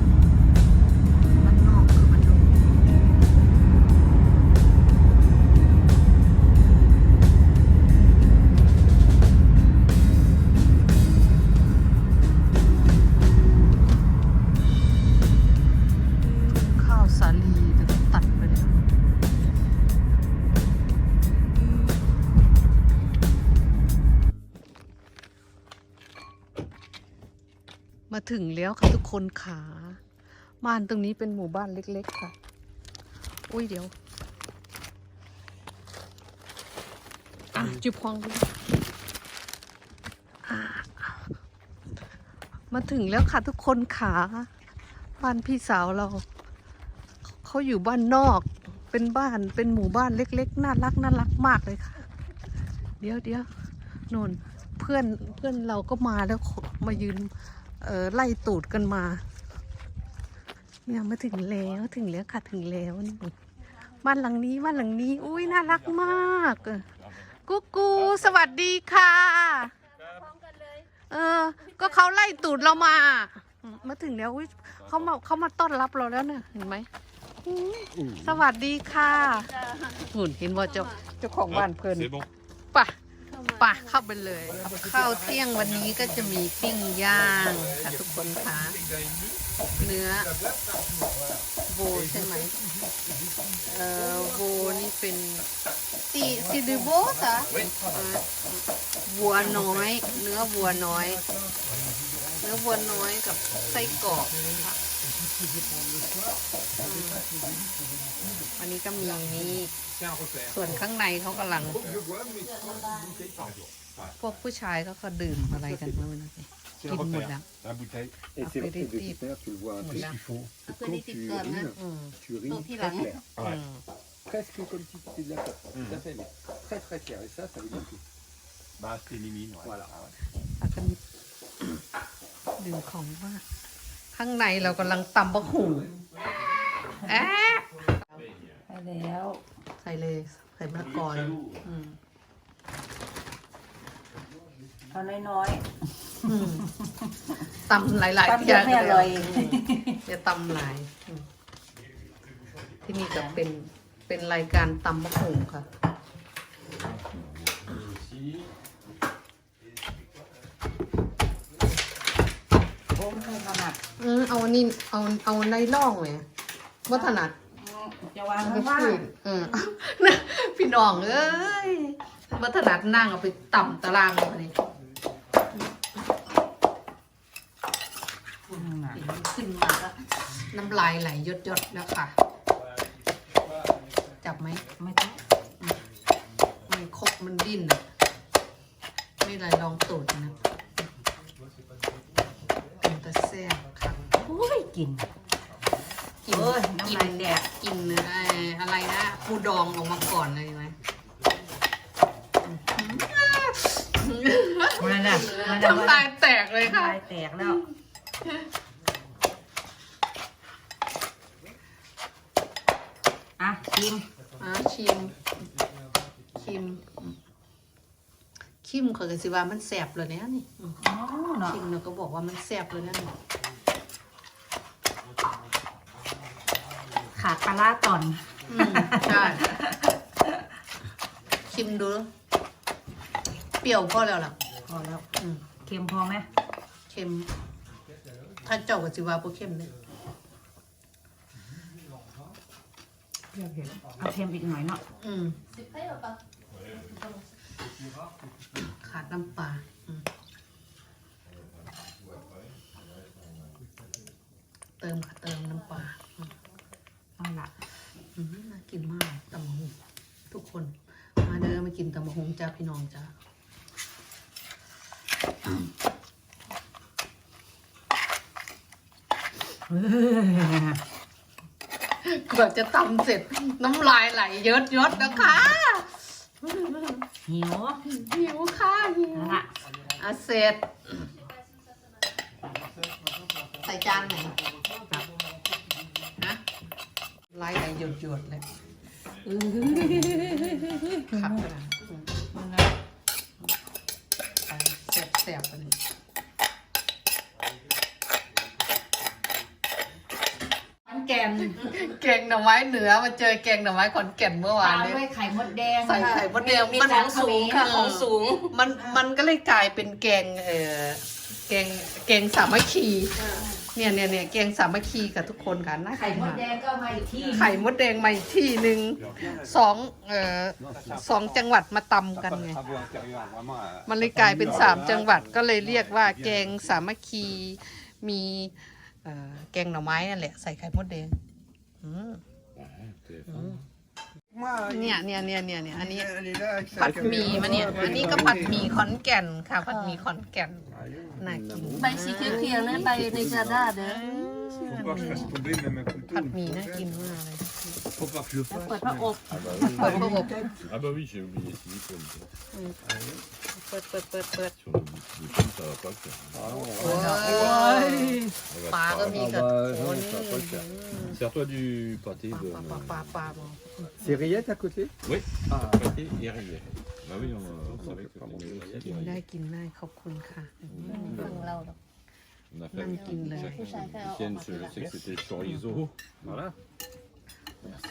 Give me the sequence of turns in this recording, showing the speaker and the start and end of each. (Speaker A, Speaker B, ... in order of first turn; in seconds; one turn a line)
Speaker A: 1.3-2.8
Speaker A: 16.3-18.9
Speaker A: 28.1-30.0
Speaker A: 30.6-32.3
Speaker A: 33.5-33.9
Speaker A: 37.5-38.5
Speaker A: 40.4-41.3
Speaker A: 42.7-44.5
Speaker A: 45.2-46.2
Speaker A: 47.4-52.0
Speaker A: 53.0-53.5
Speaker A: 54.1-59.2
Speaker A: 60.9-63.3
Speaker A: 64.0-66.8
Speaker B: 65.3-67.3
Speaker A: 67.4-69.7
Speaker B: 68.0-68.3
Speaker C: 70.0-70.9
Speaker A: 71.1-76.9
Speaker B: 74.8-75.1
Speaker A: 77.4-82.1
Speaker B: 78.0-78.4
Speaker C: 79.0-79.9
Speaker B: 81.5-82.3
Speaker A: 82.7-83.0
Speaker C: 83.2-84.0
Speaker A: 83.5-88.8
Speaker D: 84.4-92.5
Speaker A: 89.8-90.3
Speaker A: 91.7-92.5
Speaker A: 93.6-95.5
Speaker A: 96.1-101.2
Speaker D: 96.2-98.1
Speaker D: 99.2-99.9
Speaker E: 99.4-99.8
Speaker D: 100.6-103.0
Speaker A: 102.4-104.8
Speaker D: 103.6-104.6
Speaker D: 105.9-107.2
Speaker A: 106.8-107.2
Speaker E: 107.1-107.9
Speaker A: 108.6-109.8
Speaker D: 109.0-110.8
Speaker A: 110.5-111.8
Speaker D: 111.6-112.0
Speaker B: 111.7-112.0
Speaker E: 111.7-113.5
Speaker C: 111.8-113.4
Speaker A: 114.2-117.5
Speaker D: 116.8-118.2
Speaker E: 118.3-123.2
Speaker A: 118.4-119.2
Speaker A: 119.8-120.2
Speaker D: 120.0-120.3
Speaker C: 120.7-121.8
Speaker A: 121.7-122.1
Speaker C: 122.5-123.2
Speaker A: 123.4-123.8
Speaker E: 124.2-128.0
Speaker D: 125.7-126.0
Speaker D: 128.8-129.7
Speaker E: 129.6-130.0
Speaker A: 130.6-131.0
Speaker A: 132.6-133.4
Speaker A: 134.1-135.9
Speaker A: 137.0-138.2
Speaker F: 138.7-139.4
Speaker A: 139.8-142.0
Speaker B: 140.9-141.5
Speaker F: 144.9-147.1
Speaker A: 146.2-146.7
Speaker A: 147.5-151.2
Speaker F: 148.2-150.0
Speaker A: 152.8-155.7
Speaker F: 153.1-153.4
Speaker B: 156.9-158.5
Speaker F: 162.9-163.8
Speaker A: 164.0-166.2
Speaker A: 166.8-167.3
Speaker F: 166.9-169.0
Speaker A: 168.4-174.5
Speaker F: 178.4-179.0
Speaker A: 178.9-182.2
Speaker A: 184.2-184.6
Speaker F: 184.7-185.2
Speaker A: 186.7-187.8
Speaker A: 189.2-190.4
Speaker A: 192.8-194.0
Speaker F: 194.2-195.1
Speaker A: 196.2-200.7
Speaker F: 196.3-197.5
Speaker A: 202.4-207.6
Speaker F: 204.8-207.6
Speaker C: 205.0-205.8
Speaker F: 213.4-214.1
Speaker A: 214.4-215.2
Speaker A: 216.3-217.2
Speaker A: 218.6-220.8
Speaker F: 220.8-221.6
Speaker A: 221.4-223.2
Speaker F: 227.1-229.8
Speaker A: 228.5-229.5
Speaker A: 231.5-232.1
Speaker A: 233.6-234.3
Speaker F: 234.7-236.3
Speaker A: 235.1-235.4
Speaker A: 236.9-237.3
Speaker A: 238.4-239.7
Speaker F: 243.3-244.8
Speaker E: 243.8-244.2
Speaker A: 245.0-245.4
Speaker C: 245.5-246.2
Speaker B: 246.5-246.9
Speaker C: 246.7-247.3
Speaker A: 248.6-250.0
Speaker B: 251.3-253.7
Speaker A: 254.8-256.3
Speaker F: 257.2-257.5
Speaker A: 258.1-259.7
Speaker A: 260.3-263.1
Speaker F: 269.7-270.8
Speaker A: 272.0-277.1
Speaker F: 275.0-275.5
Speaker F: 277.2-277.8
Speaker A: 277.8-281.1
Speaker F: 279.1-279.5
Speaker A: 283.6-284.3
Speaker A: 287.3-288.4
Speaker F: 289.2-291.4
Speaker A: 289.6-292.8
Speaker A: 294.4-295.8
Speaker F: 300.9-301.6
Speaker A: 301.6-305.0
Speaker F: 304.6-307.7
Speaker A: 305.8-316.5
Speaker C: 306.0-308.5
Speaker C: 313.2-313.4
Speaker F: 315.9-317.7
Speaker A: 317.3-322.6
Speaker E: 320.7-321.0
Speaker D: 320.7-321.0
Speaker E: 322.3-325.2
Speaker D: 322.7-323.3
Speaker A: 323.8-331.2
Speaker D: 324.0-325.1
Speaker B: 324.4-324.8
Speaker D: 326.0-326.4
Speaker A: 331.8-332.2
Speaker B: 332.6-333.6
Speaker A: 333.3-333.6
Speaker D: 334.3-335.0
Speaker A: 334.7-336.1
Speaker D: 335.9-338.7
Speaker A: 336.8-343.1
Speaker E: 336.8-338.6
Speaker C: 339.6-340.0
Speaker E: 340.7-343.7
Speaker C: 341.8-344.4
Speaker D: 342.3-343.4
Speaker A: 343.8-345.3
Speaker D: 344.5-346.9
Speaker A: 346.1-347.8
Speaker D: 348.0-348.7
Speaker C: 348.5-349.2
Speaker B: 349.3-352.3
Speaker A: 349.6-350.4
Speaker E: 349.6-350.5
Speaker D: 349.8-350.1
Speaker A: 352.5-352.8
Speaker D: 352.9-353.2
Speaker A: 353.5-354.5
Speaker B: 354.6-357.1
Speaker E: 356.3-357.6
Speaker A: 356.5-361.2
Speaker D: 356.8-357.7
Speaker F: 356.9-358.3
Speaker B: 358.5-359.4
Speaker E: 359.1-360.6
Speaker B: 361.0-363.5
Speaker A: 362.3-364.2
Speaker E: 364.0-364.9
Speaker B: 365.0-369.2
Speaker E: 365.5-365.9
Speaker E: 367.6-369.1
Speaker A: 368.9-371.5
Speaker B: 370.7-371.5
Speaker C: 370.8-371.8
Speaker B: 372.5-376.5
Speaker A: 372.7-373.6
Speaker C: 372.8-374.8
Speaker A: 375.4-375.8
Speaker E: 376.2-376.5